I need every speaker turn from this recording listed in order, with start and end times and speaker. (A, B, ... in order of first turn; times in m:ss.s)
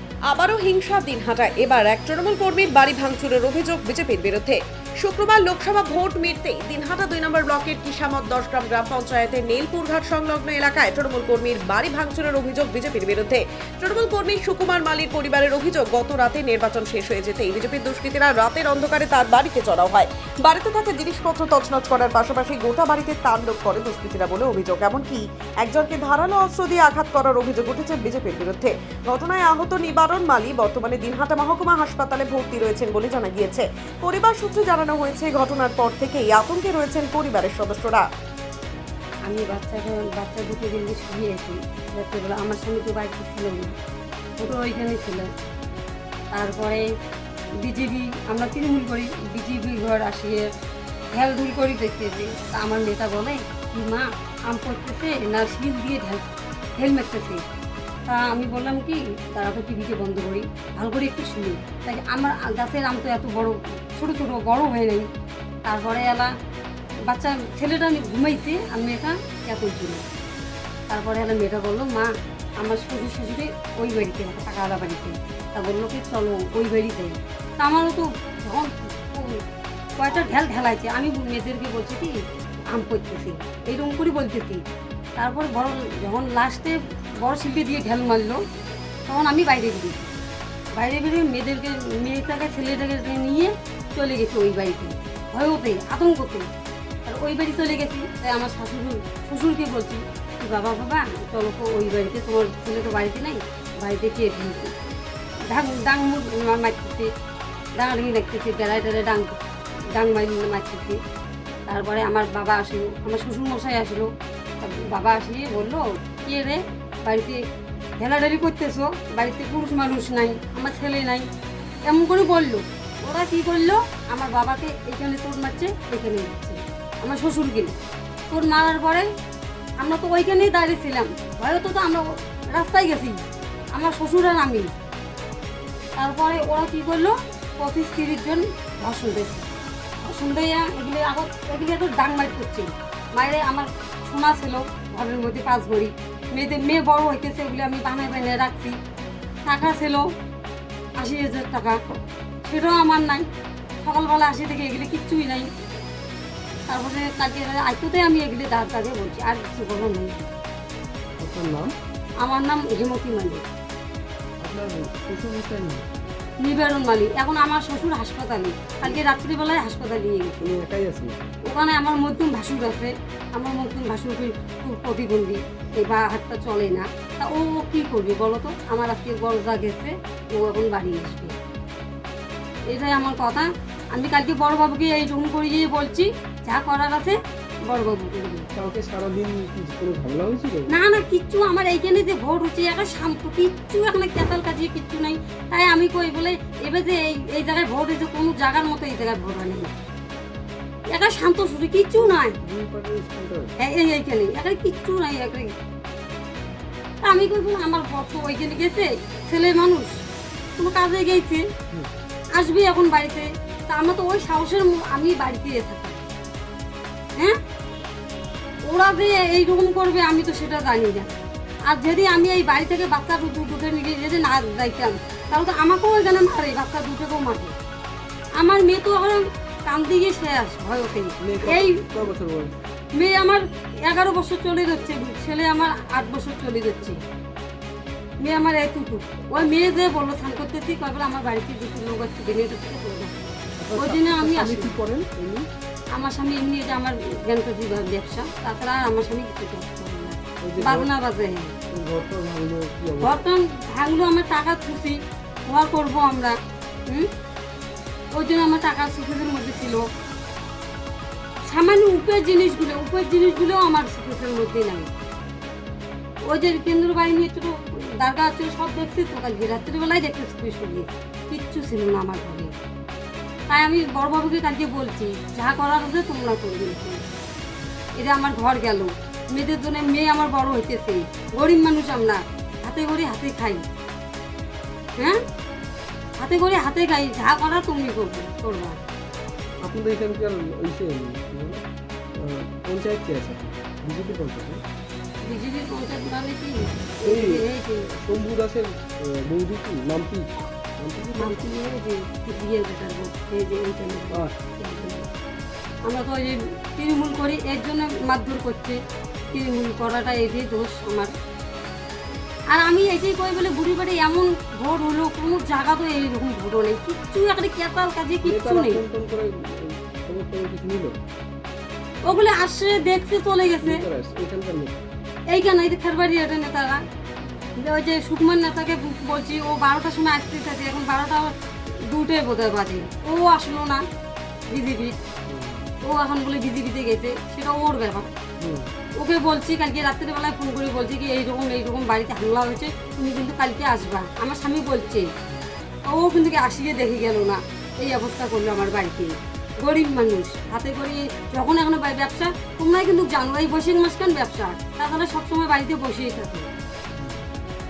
0:00.3-0:38.0 A
0:39.2-0:43.7 B
0:44.4-0:45.3 B
0:46.3-0:46.8 B
0:47.6-0:50.5 B
0:51.1-0:56.2 B
0:56.8-0:57.4 B
0:58.0-1:05.1 B
1:05.6-1:06.3 B
1:07.1-1:10.0 B
1:10.9-1:19.4 B
1:20.0-1:22.2 B
1:22.7-1:24.6 B
1:25.2-1:28.4 B
1:29.1-1:30.1 B
1:30.8-1:36.5 B
1:37.0-1:44.7 B
1:45.5-1:47.1 B
1:47.8-1:49.4 B
1:49.9-1:51.0 B
1:51.6-1:54.1 B
1:54.6-1:57.4 B
1:58.0-2:01.2 B
2:01.9-2:07.7 B
2:08.3-2:09.1 B
2:09.8-2:13.2 B
2:13.7-2:14.7 B
2:16.0-2:19.4 B
2:20.0-2:28.7 B
2:29.4-2:30.1 B
2:31.0-2:31.8 B
2:32.4-2:33.3 B
2:33.8-2:35.5 B
2:36.7-2:40.3 B
2:41.2-2:41.7 C
2:42.2-2:43.4 B
2:44.4-2:45.9 C
2:46.4-2:50.5 B
2:50.4-2:51.3 C
2:51.4-3:01.4 B
3:02.7-3:08.5 B
3:08.5-3:10.8 C
3:10.7-3:19.7 B
3:20.9-3:22.4 B
3:22.0-3:23.5 C
3:23.6-3:25.6 B
3:27.0-3:29.9 B
3:30.6-3:31.4 B
3:32.3-3:36.0 B
3:38.7-3:41.2 B
3:41.7-3:47.5 B
3:48.4-3:52.0 B
3:51.2-3:52.5 C
3:52.9-3:57.0 B
3:58.2-4:04.8 B
4:03.6-4:05.5 C
4:05.9-4:11.5 B
4:10.4-4:10.9 C
4:11.7-4:13.2 C
4:13.0-4:16.4 B
4:18.1-4:19.8 B
4:21.4-4:24.9 B
4:26.3-4:32.5 B
4:33.5-4:37.0 B
4:38.0-4:43.6 B
4:46.2-4:48.8 B
4:49.6-4:51.6 C
4:52.1-4:54.6 C
4:55.2-4:58.1 B
4:57.0-5:01.5 C
5:01.2-5:05.1 B
5:05.8-5:08.8 B
5:09.3-5:11.1 B
5:12.5-5:18.8 B
5:18.2-5:21.0 C
5:22.0-5:23.8 B
5:23.6-5:24.9 C
5:25.3-5:26.8 B
5:27.2-5:27.4 C
5:27.6-5:33.8 B
5:34.5-5:35.0 B
5:35.3-5:35.7 C
5:35.8-5:38.1 B
5:38.4-5:38.7 C
5:39.0-5:45.1 B
5:45.9-5:56.5 B
5:57.0-5:57.2 C